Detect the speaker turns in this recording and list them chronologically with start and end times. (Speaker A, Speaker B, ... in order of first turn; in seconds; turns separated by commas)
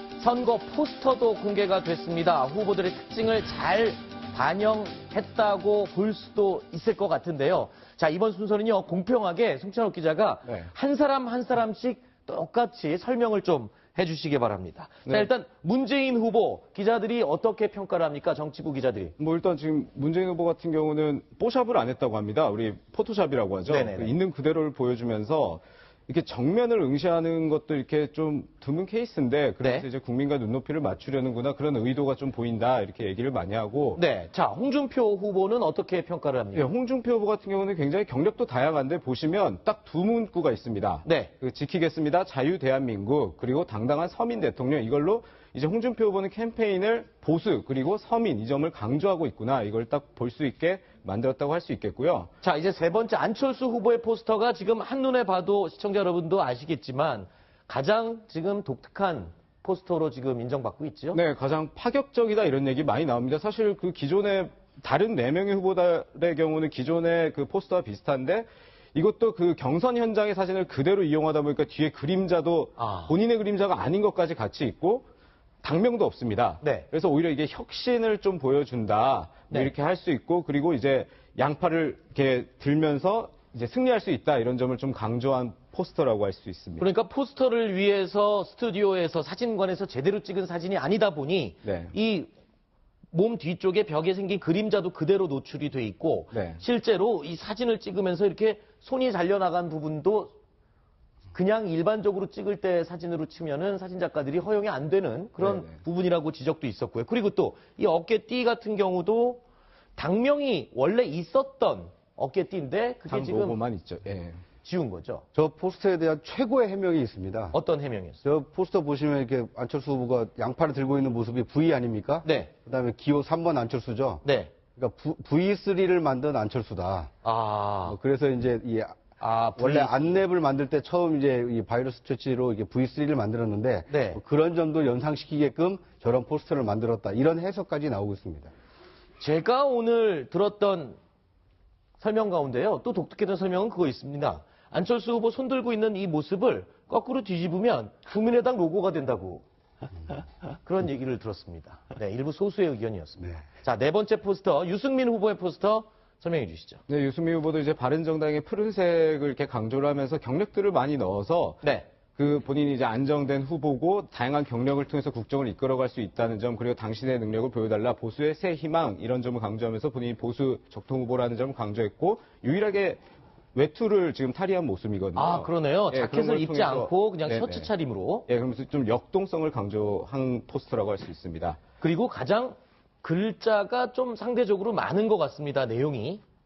Speaker A: 0.2-19.1, Speaker B: 19.2-34.0, Speaker A: 23.7-24.1, Speaker A: 29.6-29.9, Speaker A: 34.0-36.7, Speaker B: 36.5-52.3, Speaker A: 41.0-41.3, Speaker A: 52.4-61.2, Speaker B: 61.1-75.1, Speaker A: 72.8-73.2, Speaker B: 75.6-86.9, Speaker A: 76.6-76.9, Speaker A: 86.8-92.3, Speaker B: 91.7-91.9, Speaker A: 93.1-100.3, Speaker B: 96.3-96.6, Speaker A: 101.3-109.4, Speaker A: 110.0-113.6, Speaker B: 113.1-114.4, Speaker A: 114.6-115.2, Speaker C: 115.3-117.6, Speaker A: 117.5-118.2, Speaker C: 118.2-124.2, Speaker A: 122.2-122.5, Speaker A: 124.2-124.5, Speaker C: 124.8-127.1, Speaker A: 127.2-128.0, Speaker C: 127.8-129.0, Speaker A: 129.2-130.2, Speaker C: 129.6-138.5, Speaker A: 133.9-134.2, Speaker A: 139.2-141.0, Speaker A: 142.0-149.4, Speaker A: 150.6-156.8, Speaker B: 156.9-161.6, Speaker A: 161.6-161.9, Speaker B: 162.2-173.0, Speaker B: 173.6-177.7, Speaker A: 175.2-178.3, Speaker B: 178.3-181.6, Speaker A: 181.8-186.2